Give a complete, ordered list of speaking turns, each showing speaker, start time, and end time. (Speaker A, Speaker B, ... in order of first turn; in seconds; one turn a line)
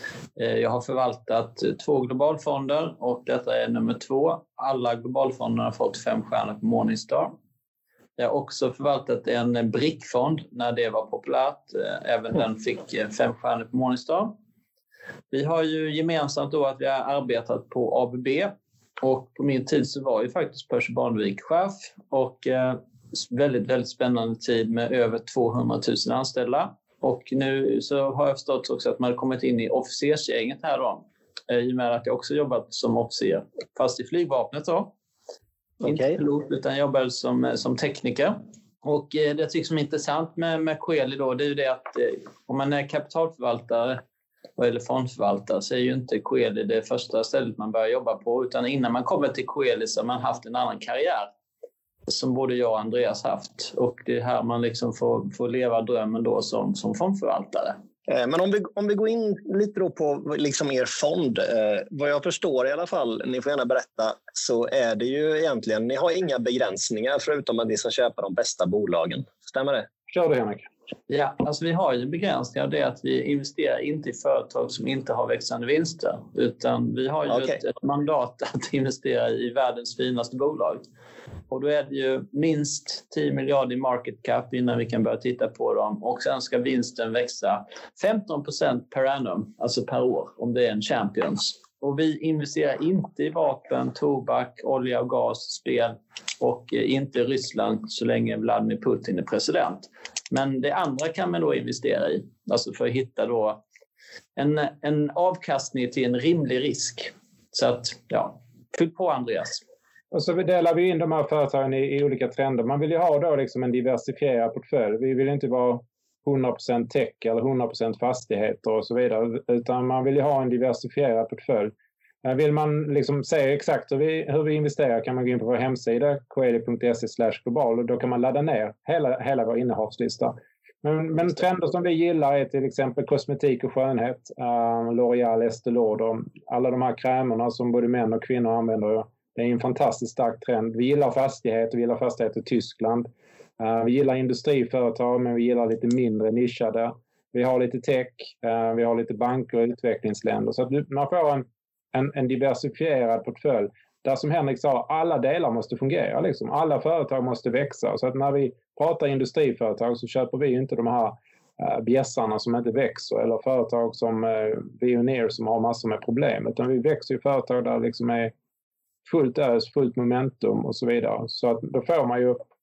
Speaker A: 0.4-7.3
Speaker A: 8.2-14.3
Speaker A: 15.3-34.9
Speaker B: 35.8-36.2
Speaker A: 35.8-44.0
Speaker A: 44.6-51.3
Speaker A: 52.1-57.8
Speaker B: 58.1-69.9
Speaker C: 70.1-70.7
Speaker A: 71.1-80.8
Speaker B: 77.3-77.6
Speaker A: 81.5-103.6
Speaker A: 104.4-109.6
Speaker C: 110.1-143.1
Speaker C: 143.6-168.3
Speaker C: 169.1-172.4